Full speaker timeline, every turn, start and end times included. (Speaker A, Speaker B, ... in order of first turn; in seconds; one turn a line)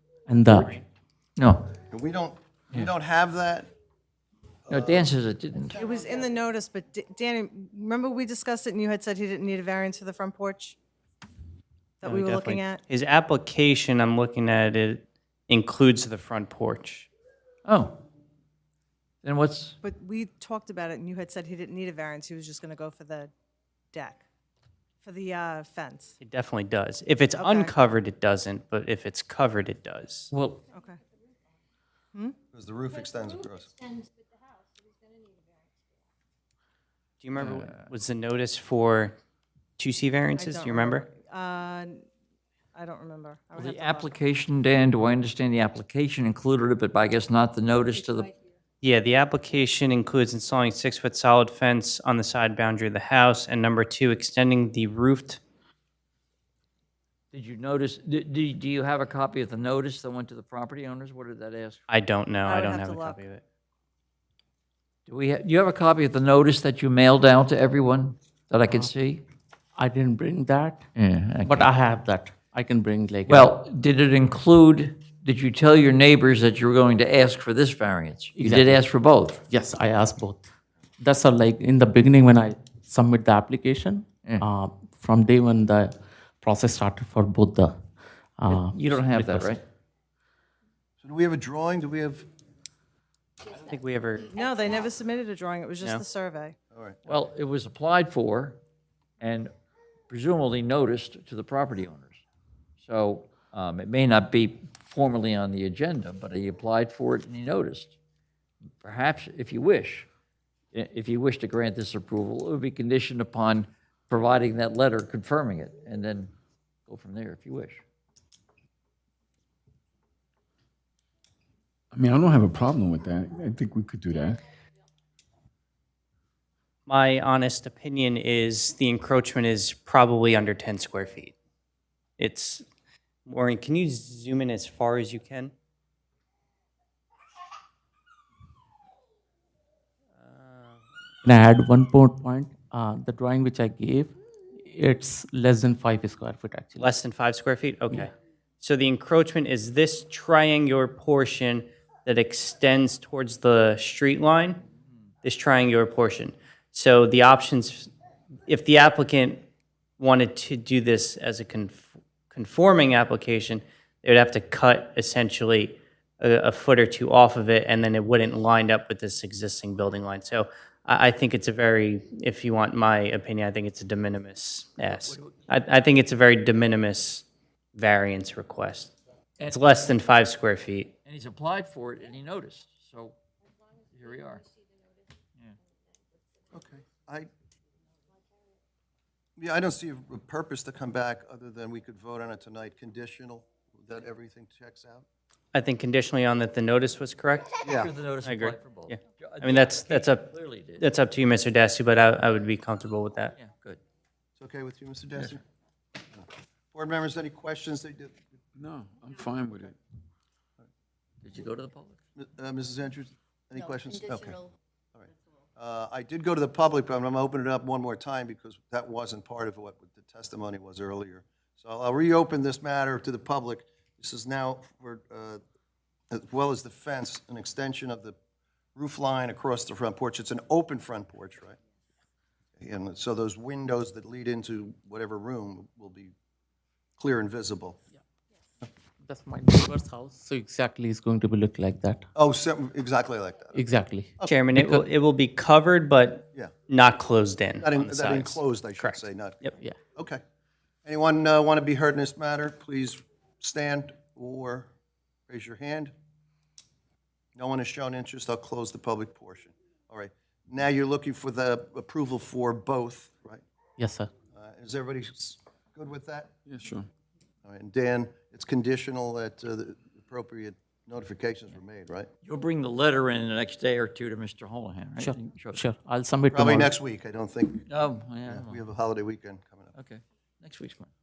Speaker A: 0.3-0.8
Speaker B: 1.4-1.7
Speaker C: 1.9-3.7
Speaker B: 4.7-5.8
Speaker C: 4.7-5.1
Speaker D: 5.7-10.8
Speaker D: 12.0-12.8
Speaker E: 12.0-17.1
Speaker B: 17.6-18.0
Speaker B: 19.2-19.8
Speaker D: 19.8-23.3
Speaker D: 23.9-24.2
Speaker D: 25.0-26.2
Speaker E: 26.2-30.3
Speaker D: 27.3-27.8
Speaker B: 30.3-30.6
Speaker D: 30.7-31.0
Speaker C: 32.5-33.8
Speaker E: 37.2-39.1
Speaker B: 37.4-37.9
Speaker E: 39.8-41.0
Speaker D: 40.3-42.0
Speaker D: 42.7-44.1
Speaker B: 43.5-48.3
Speaker E: 48.8-55.4
Speaker B: 57.3-61.9
Speaker E: 61.9-63.4
Speaker D: 62.4-63.2
Speaker B: 65.1-69.2
Speaker A: 69.8-70.8
Speaker B: 71.0-71.7
Speaker A: 71.4-73.5
Speaker B: 73.3-79.4
Speaker A: 78.3-78.8
Speaker A: 79.5-80.5
Speaker A: 81.0-87.7
Speaker A: 88.4-89.5
Speaker B: 88.5-89.6
Speaker C: 91.0-92.3
Speaker E: 93.5-94.3
Speaker D: 94.2-96.5
Speaker C: 96.7-97.0
Speaker B: 97.0-98.6
Speaker B: 99.2-99.5
Speaker B: 100.1-102.2
Speaker B: 102.8-107.9
Speaker B: 108.7-110.1
Speaker B: 110.7-116.3
Speaker B: 116.9-117.8
Speaker F: 121.9-124.4
Speaker E: 126.9-131.3
Speaker E: 132.2-132.6
Speaker E: 133.2-135.5
Speaker E: 140.2-140.8
Speaker A: 141.2-146.9
Speaker E: 146.8-154.6
Speaker E: 155.2-157.9
Speaker E: 158.5-159.4
Speaker E: 160.0-178.9
Speaker B: 174.9-175.4
Speaker B: 179.4-179.6
Speaker E: 179.4-180.9
Speaker B: 181.1-183.2
Speaker B: 183.8-184.5
Speaker C: 186.5-187.3
Speaker C: 189.4-195.0
Speaker E: 195.5-197.6
Speaker B: 197.6-200.9
Speaker C: 197.6-197.9
Speaker E: 198.2-203.3
Speaker B: 203.3-203.8
Speaker C: 204.4-205.4
Speaker C: 206.1-208.2
Speaker F: 208.6-209.7
Speaker B: 211.2-212.0
Speaker C: 212.2-225.4
Speaker C: 226.1-228.2
Speaker C: 228.8-231.6
Speaker C: 232.6-236.1
Speaker C: 237.0-237.8
Speaker A: 239.0-242.0
Speaker C: 242.1-243.6
Speaker A: 243.5-244.8
Speaker E: 244.2-249.5
Speaker C: 247.6-250.2
Speaker C: 250.8-254.7
Speaker C: 255.3-255.9
Speaker C: 257.4-263.4
Speaker A: 263.8-264.1
Speaker C: 264.3-266.3
Speaker F: 266.5-266.9
Speaker C: 267.4-272.1
Speaker B: 272.2-275.6
Speaker A: 275.0-276.7
Speaker C: 276.3-277.7
Speaker B: 277.6-278.6
Speaker C: 278.3-279.7
Speaker B: 279.7-280.9